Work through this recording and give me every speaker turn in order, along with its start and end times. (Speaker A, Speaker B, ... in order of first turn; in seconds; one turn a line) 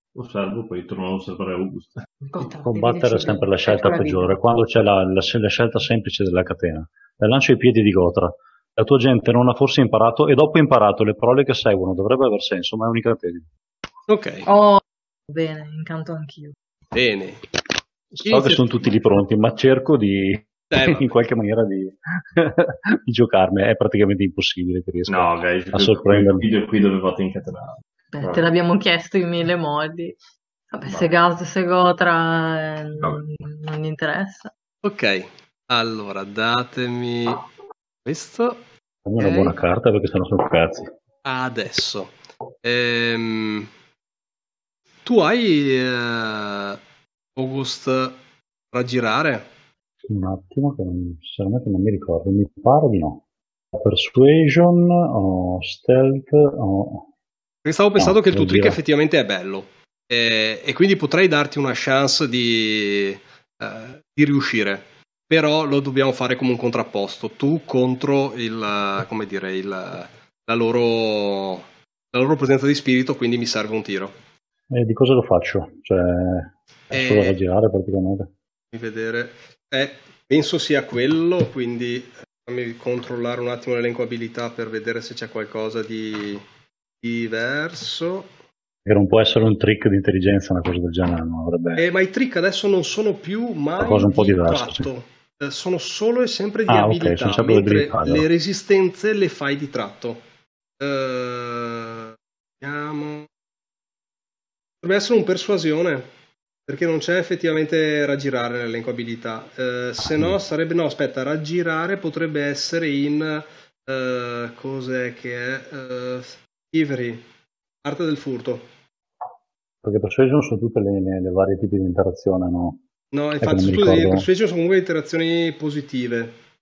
Speaker A: 0.1-2.2
Speaker B: 2.3-4.4
Speaker C: 2.6-13.5
Speaker D: 14.1-14.5
Speaker B: 14.4-16.5
Speaker D: 16.9-17.4
Speaker C: 18.1-26.4
Speaker D: 18.2-19.0
Speaker D: 20.7-21.1
Speaker A: 25.1-28.4
Speaker B: 28.1-30.2
Speaker B: 30.7-34.5
Speaker D: 34.8-37.4
Speaker D: 38.0-38.6
Speaker C: 39.0-40.9
Speaker D: 39.2-39.5
Speaker D: 41.2-43.7
Speaker D: 45.0-46.8
Speaker D: 47.4-48.2
Speaker D: 48.7-49.5
Speaker C: 50.0-53.2
Speaker C: 53.7-57.0
Speaker D: 57.6-74.1
Speaker C: 58.0-58.8
Speaker C: 74.7-78.3
Speaker D: 76.9-77.4
Speaker D: 78.7-86.4
Speaker D: 87.0-88.3
Speaker C: 88.8-91.8
Speaker D: 91.8-100.2
Speaker C: 93.8-94.9
Speaker C: 96.7-98.2
Speaker D: 100.8-103.3
Speaker D: 104.8-106.1
Speaker D: 106.7-117.2
Speaker D: 117.8-118.7
Speaker C: 119.8-122.8
Speaker D: 123.1-126.4
Speaker C: 123.4-124.3